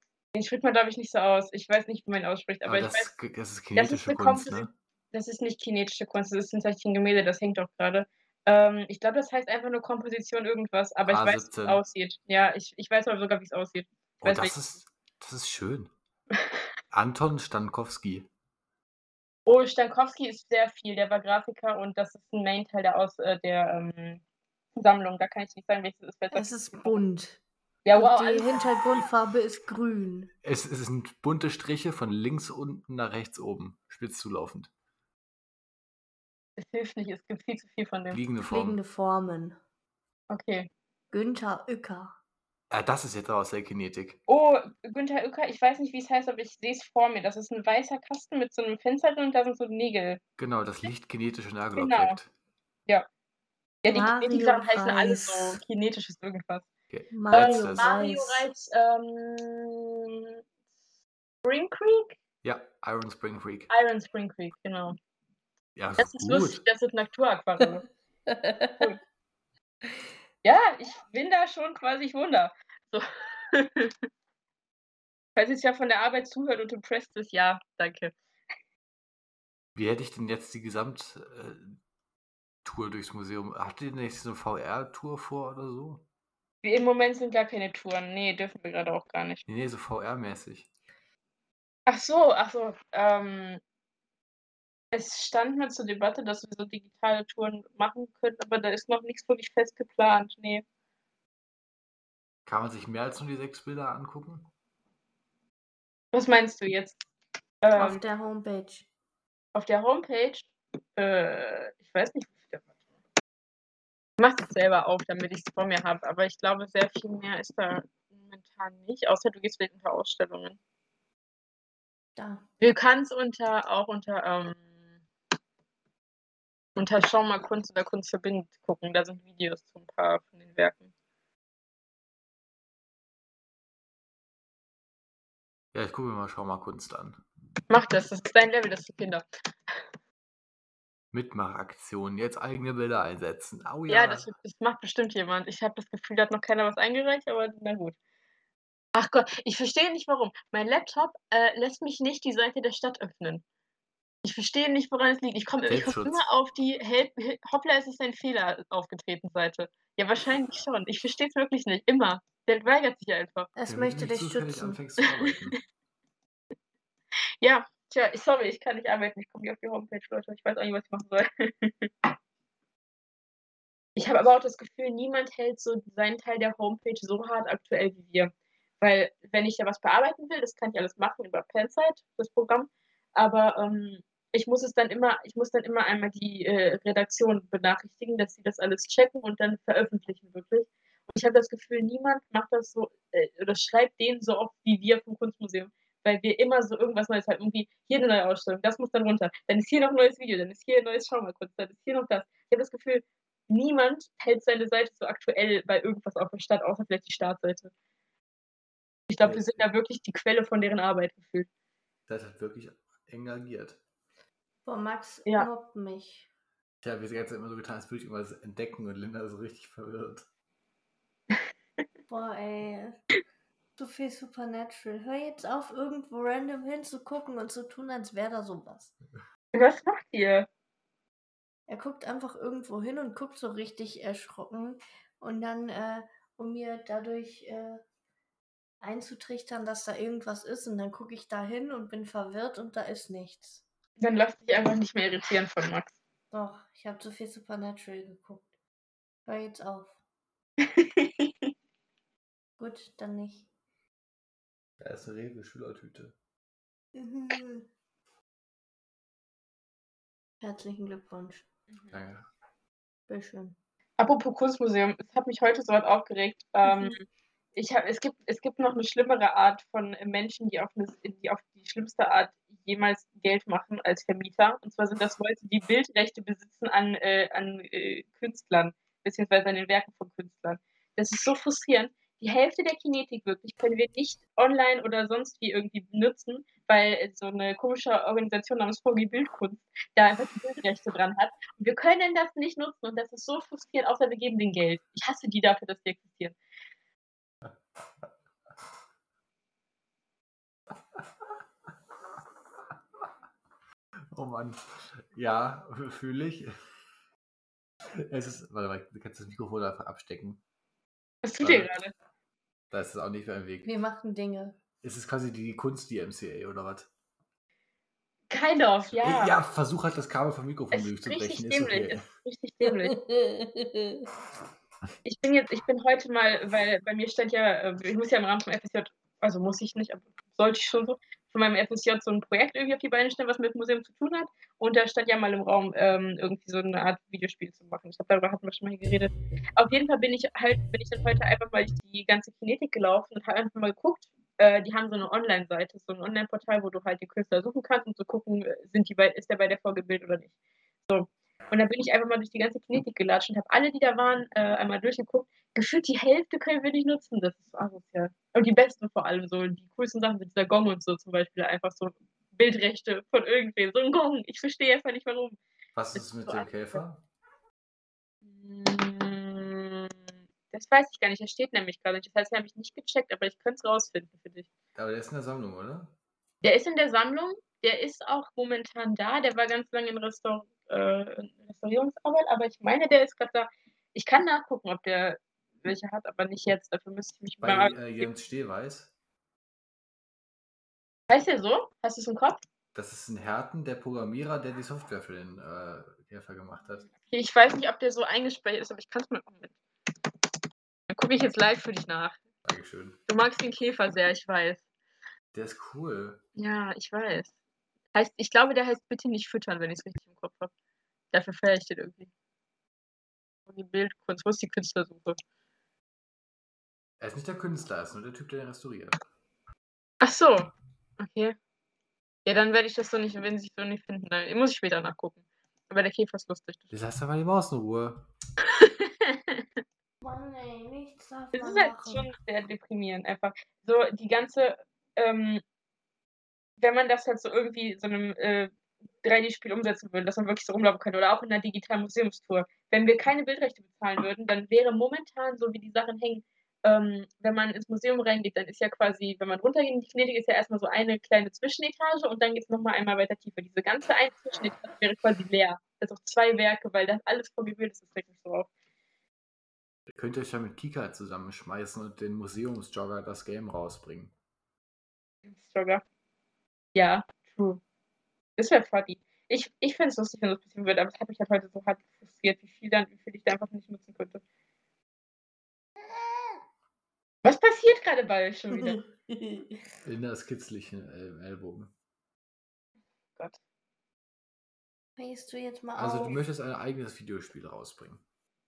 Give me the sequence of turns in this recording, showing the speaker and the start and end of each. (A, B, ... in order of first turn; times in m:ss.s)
0:00.3-0:03.1 A
0:02.6-0:04.7 B
0:03.8-0:14.6 A
0:11.1-0:11.8 B
0:14.2-0:15.9 B
0:16.9-0:18.3 B
0:19.5-0:24.2 A
0:24.8-0:27.0 A
0:26.3-0:27.4 C
0:27.8-0:28.8 A
0:28.0-0:30.3 C
0:30.4-0:34.7 B
0:36.6-0:38.2 A
0:38.1-0:38.8 B
0:38.4-0:39.6 C
0:40.3-0:40.7 A
0:41.1-0:42.2 C
0:42.7-0:44.2 B
0:44.3-0:50.2 A
0:50.4-0:52.3 B
0:51.8-0:52.2 A
0:53.8-0:56.7 A
0:53.9-0:55.6 C
0:56.9-0:57.9 B
0:57.1-0:58.5 C
0:57.3-1:00.0 A
1:01.4-1:02.2 A
1:02.4-1:03.7 B
1:03.7-1:05.0 A
1:05.8-1:06.6 B
1:06.0-1:07.8 A
1:08.3-1:08.9 C
1:10.4-1:13.9 A
1:15.4-1:18.1 A
1:19.8-1:21.8 B
1:22.6-1:26.0 B
1:26.6-1:29.4 A
1:29.5-1:30.7 B
1:31.9-1:33.6 A
1:34.9-1:40.6 A
1:42.5-1:44.5 B
1:46.1-1:47.0 A
1:47.6-1:48.0 A
1:47.8-1:48.9 C
1:49.5-1:52.6 A
1:54.2-2:00.6 A
2:02.2-2:02.4 C
2:02.6-2:04.6 A
2:06.8-2:10.9 A
2:15.7-2:17.2 B
2:17.7-2:19.2 A
2:21.1-2:24.3 B
2:23.9-2:28.0 A
2:29.0-2:33.4 A
2:34.2-2:43.5 A
2:35.7-2:36.2 B
2:43.6-2:44.8 C
2:43.7-2:45.6 B
2:47.4-2:52.1 A
2:54.0-3:27.7 A
3:29.1-3:31.5 A
3:29.2-3:29.6 B
3:32.1-3:33.8 B
3:34.6-3:36.3 C
3:36.8-3:40.2 B
3:42.1-3:43.0 C
3:43.8-3:48.9 C
3:49.5-3:50.5 A
3:51.7-3:57.8 C
3:58.8-4:03.6 C
4:04.0-4:06.0 A
4:06.3-4:08.5 C
4:09.3-4:10.0 C
4:10.6-4:11.5 A
4:12.6-4:13.5 C
4:14.8-4:16.1 B
4:17.0-4:17.7 C
4:20.4-4:21.5 C
4:21.9-4:22.2 B
4:23.1-4:23.6 C
4:24.0-4:27.0 A
4:26.6-4:27.0 C
4:27.6-4:56.4 A
4:57.4-4:58.0 B
5:04.1-5:06.5 B
5:07.9-5:10.4 B
5:11.2-5:11.9 A
5:11.4-5:11.7 B
5:12.7-5:13.7 B
5:13.6-5:14.6 C
5:14.8-5:16.9 B
5:18.3-5:19.4 A
5:18.9-5:22.1 B
5:20.7-5:23.0 A
5:22.9-5:24.1 C
5:25.0-5:50.3 A
5:50.9-6:05.4 A
6:05.8-6:07.0 B
6:06.0-6:06.8 A
6:08.2-6:09.9 A
6:10.5-6:14.5 A
6:14.8-6:15.9 B
6:16.4-6:28.1 A
6:27.4-6:28.9 B
6:31.1-6:32.4 A
6:32.7-6:36.9 B
6:37.0-6:39.5 A
6:40.9-6:42.2 A
6:42.4-6:43.0 B
6:43.1-6:44.6 A
6:45.3-6:46.2 B
6:46.4-6:47.3 A
6:47.9-6:50.5 A
6:51.1-6:52.1 A
6:53.5-6:55.2 A
6:57.0-6:59.0 B
7:00.0-7:01.4 A
7:02.2-7:06.7 A
7:06.7-7:08.1 B
7:08.6-7:09.4 A
7:10.0-7:12.1 C
7:11.3-7:15.4 A
7:16.6-7:18.5 A
7:19.0-7:38.5 A
7:39.9-7:44.1 B
7:45.2-7:45.8 A
7:46.8-7:47.6 A
7:48.4-7:54.2 A
7:57.2-7:58.8 A
7:58.5-7:59.6 C
7:59.8-8:01.7 B
8:05.0-8:06.2 C
8:05.8-8:08.0 B